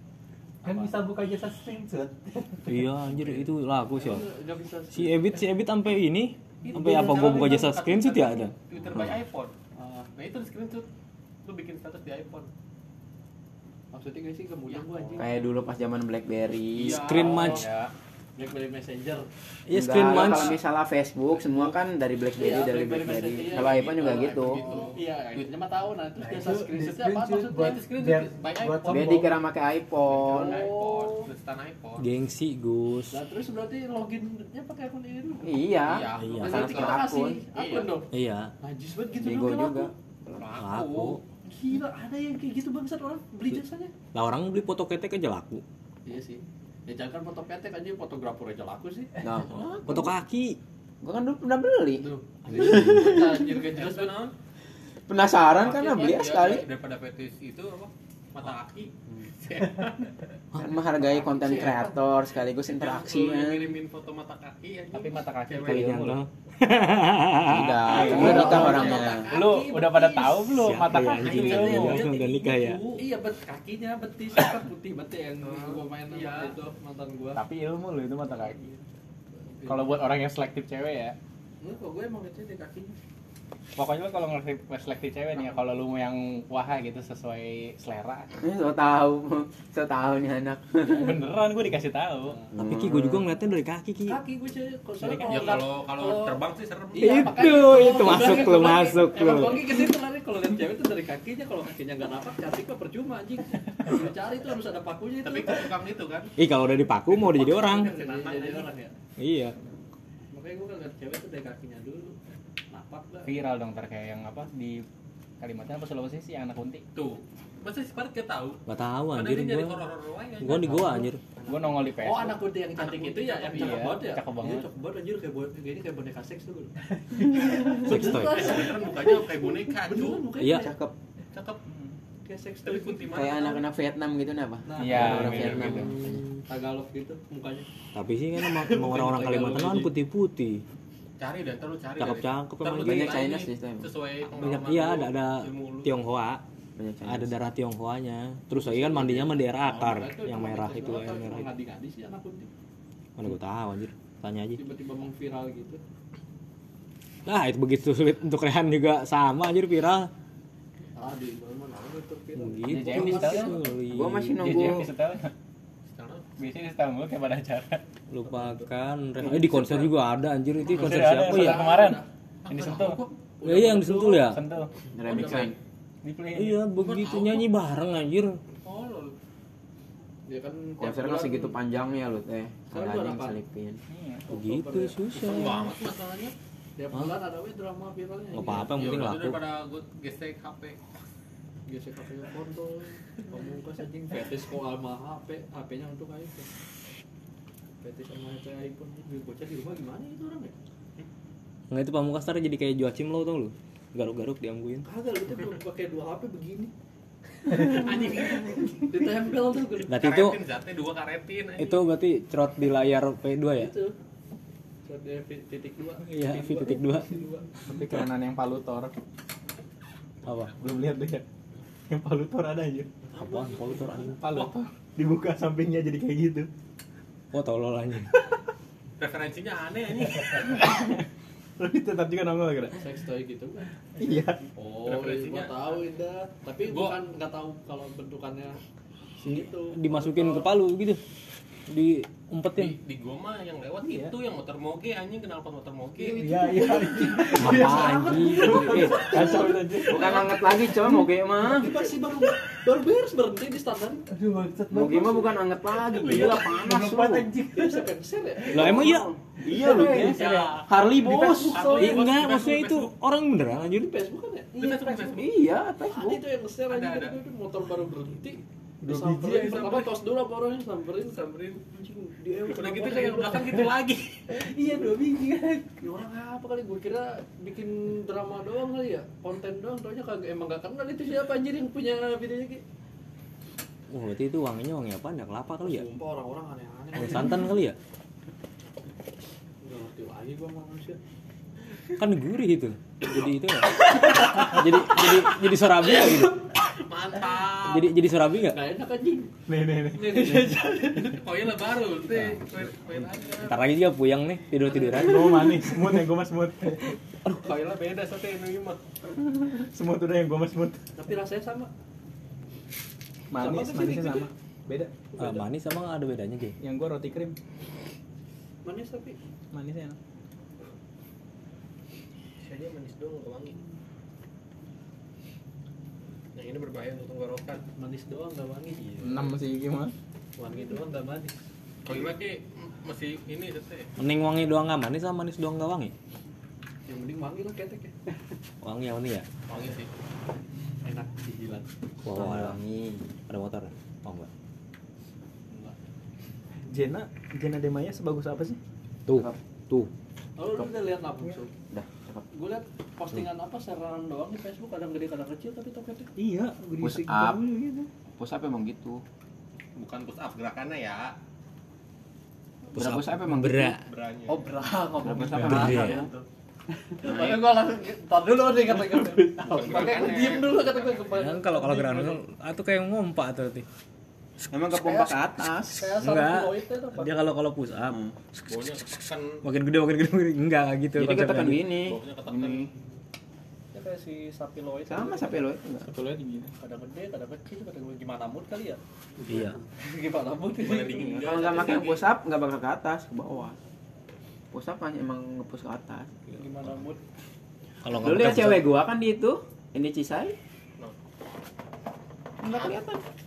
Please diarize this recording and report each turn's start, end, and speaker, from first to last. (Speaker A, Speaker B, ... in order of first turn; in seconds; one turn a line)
Speaker A: 0.6-0.9
Speaker B: 0.6-2.7
Speaker C: 2.6-4.2
Speaker A: 3.1-3.5
Speaker D: 3.9-5.4
Speaker C: 4.9-8.5
Speaker A: 6.6-9.5
Speaker D: 9.8-10.1
Speaker A: 10.1-10.8
Speaker A: 11.4-12.5
Speaker D: 13.9-15.5
Speaker A: 14.7-15.4
Speaker E: 15.2-17.2
Speaker A: 16.7-17.9
Speaker C: 17.0-17.6
Speaker D: 17.2-17.6
Speaker D: 18.4-19.2
Speaker C: 19.7-20.6
Speaker E: 19.7-24.6
Speaker D: 22.4-27.8
Speaker A: 23.5-25.4
Speaker B: 26.2-29.3
Speaker A: 27.5-29.4
Speaker E: 28.9-30.6
Speaker A: 30.0-32.1
Speaker D: 30.3-31.3
Speaker C: 32.0-33.2
Speaker D: 33.1-35.6
Speaker E: 35.4-37.4
Speaker A: 35.8-38.0
Speaker C: 36.2-36.5
Speaker D: 36.4-38.1
Speaker C: 38.1-38.5
Speaker D: 38.6-39.9
Speaker E: 39.2-40.5
Speaker A: 40.4-41.2
Speaker C: 40.6-41.2
Speaker D: 41.5-43.9
Speaker C: 44.1-45.6
Speaker D: 46.0-49.2
Speaker E: 49.2-50.1
Speaker C: 49.8-50.6
Speaker E: 51.0-52.0
Speaker D: 52.0-54.2
Speaker A: 52.5-54.3
Speaker E: 52.7-53.3
Speaker E: 55.1-56.6
Speaker A: 55.4-60.1
Speaker C: 60.5-60.8
Speaker E: 60.5-63.8
Speaker D: 61.0-62.0
Speaker A: 62.6-66.1
Speaker F: 64.9-66.2
Speaker C: 65.6-68.6
Speaker E: 67.5-69.3
Speaker F: 67.9-73.0
Speaker A: 67.9-69.4
Speaker D: 68.0-70.6
Speaker C: 70.5-72.8
Speaker A: 71.3-72.0
Speaker D: 72.9-77.4
Speaker A: 75.4-76.5
Speaker F: 77.3-78.6
Speaker D: 78.2-78.8
Speaker D: 79.4-80.0
Speaker F: 79.7-81.1
Speaker D: 81.6-83.0
Speaker F: 83.8-88.3
Speaker E: 88.4-91.3
Speaker F: 90.8-92.5
Speaker E: 92.5-93.2
Speaker C: 92.6-94.2
Speaker D: 94.0-96.4
Speaker F: 95.0-95.6
Speaker A: 95.2-97.5
Speaker D: 96.9-105.6
Speaker C: 97.0-99.8
Speaker E: 97.1-99.5
Speaker A: 105.2-106.3
Speaker C: 106.4-107.9
Speaker A: 107.3-108.7
Speaker D: 107.3-108.9
Speaker C: 109.2-109.5
Speaker D: 110.3-112.2
Speaker D: 112.7-113.4
Speaker F: 113.2-114.8
Speaker F: 115.4-116.8
Speaker A: 116.9-118.6
Speaker C: 118.7-119.8
Speaker A: 119.1-121.0
Speaker C: 120.4-121.2
Speaker D: 121.4-130.8
Speaker F: 121.5-122.4
Speaker A: 122.8-123.9
Speaker F: 123.5-124.7
Speaker C: 127.8-128.5
Speaker A: 127.9-130.3
Speaker C: 130.4-130.7
Speaker E: 130.5-130.9
Speaker A: 131.3-131.6
Speaker F: 131.7-131.9
Speaker D: 132.2-133.3
Speaker A: 132.6-133.6
Speaker E: 133.1-136.3
Speaker D: 134.7-135.8
Speaker F: 134.7-135.9
Speaker C: 134.9-135.6
Speaker A: 135.3-135.8
Speaker D: 136.5-137.7
Speaker C: 137.9-140.6
Speaker D: 138.4-139.9
Speaker A: 141.2-145.9
Speaker C: 142.0-143.2
Speaker E: 142.8-143.9
Speaker C: 144.3-146.4
Speaker E: 146.8-147.3
Speaker C: 147.0-151.5
Speaker D: 148.7-152.5
Speaker C: 153.2-154.6
Speaker D: 154.6-155.8
Speaker C: 157.2-160.1
Speaker D: 160.9-163.6
Speaker C: 162.3-164.5
Speaker F: 162.7-163.6
Speaker E: 163.9-164.9
Speaker F: 164.4-165.3
Speaker A: 165.9-166.3
Speaker F: 166.4-167.8
Speaker C: 168.1-171.6
Speaker D: 168.3-168.6
Speaker E: 169.2-169.9
Speaker F: 170.7-173.0
Speaker D: 170.7-172.1
Speaker A: 172.4-173.1
Speaker D: 173.4-174.3
Speaker C: 173.4-174.4
Speaker F: 173.8-174.7
Speaker E: 174.9-175.5
Speaker D: 175.0-175.5
Speaker A: 175.1-175.5
Speaker F: 176.0-176.7
Speaker C: 176.3-178.4
Speaker A: 176.8-177.5
Speaker A: 178.6-179.1
Speaker D: 180.3-181.6
Speaker E: 180.8-183.8
Speaker D: 182.7-183.4
Speaker F: 183.9-184.3
Speaker C: 184.3-185.7
Speaker D: 184.3-185.6
Speaker A: 185.2-186.3
Speaker D: 186.8-188.8
Speaker C: 188.3-189.4
Speaker A: 188.7-190.8
Speaker D: 191.7-196.5
Speaker D: 197.8-200.5
Speaker C: 201.7-204.8
Speaker D: 204.8-206.7
Speaker D: 207.5-209.9
Speaker A: 207.5-208.7
Speaker A: 209.8-211.8
Speaker C: 209.9-210.4
Speaker C: 211.6-213.7
Speaker D: 213.6-213.9
Speaker D: 214.8-217.5
Speaker C: 216.1-217.2
Speaker F: 217.6-218.9
Speaker C: 220.2-220.5
Speaker F: 220.4-221.2
Speaker F: 221.9-222.9
Speaker D: 223.2-223.8
Speaker C: 223.2-224.3
Speaker F: 224.0-226.5
Speaker A: 224.2-224.6
Speaker C: 227.3-228.1
Speaker A: 229.0-230.7
Speaker F: 230.4-231.0
Speaker F: 231.6-232.8
Speaker D: 232.7-233.7
Speaker F: 234.0-234.4
Speaker D: 234.5-238.6
Speaker A: 234.8-235.7
Speaker A: 236.6-237.0
Speaker D: 239.2-240.5
Speaker C: 239.7-241.0
Speaker C: 241.7-242.8
Speaker A: 242.6-246.3
Speaker F: 243.8-244.1
Speaker F: 246.1-250.0
Speaker B: 246.2-250.1
Speaker D: 246.3-250.6
Speaker C: 247.3-249.1
Speaker E: 249.2-251.9
Speaker D: 251.4-254.1
Speaker B: 254.1-255.4
Speaker E: 254.7-257.3
Speaker D: 255.9-256.6
Speaker B: 256.0-257.9
Speaker A: 256.1-256.3
Speaker D: 257.2-258.8
Speaker E: 258.5-260.1
Speaker C: 258.5-259.1
Speaker B: 258.6-258.9
Speaker F: 259.5-260.6
Speaker B: 259.5-260.4
Speaker A: 259.8-262.9
Speaker C: 260.7-261.1
Speaker E: 260.7-261.7
Speaker D: 261.0-262.1
Speaker C: 261.8-263.9
Speaker D: 263.7-265.2
Speaker A: 264.6-265.3
Speaker E: 265.1-266.2
Speaker D: 265.9-273.7
Speaker A: 266.7-267.1
Speaker B: 269.4-269.8
Speaker A: 272.5-274.2
Speaker D: 274.3-275.0
Speaker F: 274.9-275.6
Speaker D: 275.8-282.6
Speaker C: 283.9-285.9
Speaker D: 285.6-287.5
Speaker C: 286.9-287.8
Speaker D: 289.6-291.0
Speaker C: 291.9-296.4
Speaker D: 293.9-294.6
Speaker A: 296.0-297.9
Speaker C: 297.6-298.6
Speaker D: 298.5-299.3
Speaker F: 299.5-300.8
Speaker D: 299.9-301.2
Speaker A: 301.0-303.6
Speaker C: 303.4-305.6
Speaker F: 304.9-306.9
Speaker A: 307.2-308.8
Speaker F: 309.4-310.8
Speaker D: 310.9-311.7
Speaker F: 313.3-315.1
Speaker D: 313.4-314.3
Speaker D: 315.1-315.4
Speaker C: 315.2-316.6
Speaker F: 316.6-317.3
Speaker D: 318.6-319.2
Speaker F: 319.5-320.0
Speaker A: 322.4-323.6
Speaker A: 326.3-327.6
Speaker D: 327.7-329.2
Speaker F: 329.0-329.9
Speaker D: 330.4-331.3
Speaker A: 330.4-331.3
Speaker A: 331.8-333.9
Speaker C: 334.0-335.9
Speaker D: 336.9-337.9
Speaker C: 338.6-339.3
Speaker A: 339.5-339.9
Speaker D: 340.8-341.7
Speaker C: 342.0-342.6
Speaker E: 342.1-343.1
Speaker C: 343.3-344.3
Speaker D: 345.5-345.8
Speaker F: 346.7-348.6
Speaker C: 349.1-349.9
Speaker E: 349.1-349.4
Speaker D: 350.4-351.5
Speaker E: 351.7-352.2
Speaker D: 352.3-356.1
Speaker F: 356.2-357.9
Speaker E: 356.8-357.4
Speaker E: 358.1-359.0
Speaker A: 359.8-361.1
Speaker C: 362.7-363.8
Speaker E: 362.8-363.8
Speaker A: 363.8-364.5
Speaker D: 364.3-366.2
Speaker E: 365.0-366.1
Speaker F: 365.0-365.9
Speaker C: 365.3-366.0
Speaker D: 367.0-372.2
Speaker E: 367.0-367.5
Speaker B: 368.9-369.8
Speaker A: 369.4-371.1
Speaker C: 371.1-373.6
Speaker E: 374.5-375.9
Speaker D: 374.7-375.2
Speaker D: 375.7-377.1
Speaker C: 376.0-378.0
Speaker A: 378.4-379.4
Speaker C: 379.4-381.6
Speaker E: 380.9-382.0
Speaker A: 381.7-382.7
Speaker F: 382.3-382.7
Speaker D: 383.7-385.4
Speaker E: 384.9-385.9
Speaker F: 385.8-386.5
Speaker D: 386.6-391.2
Speaker C: 389.2-389.6
Speaker A: 390.6-392.1
Speaker E: 391.0-393.6
Speaker E: 394.5-396.1
Speaker D: 396.3-397.0
Speaker C: 397.8-398.6
Speaker E: 397.9-400.3
Speaker E: 402.4-402.9
Speaker A: 402.4-403.0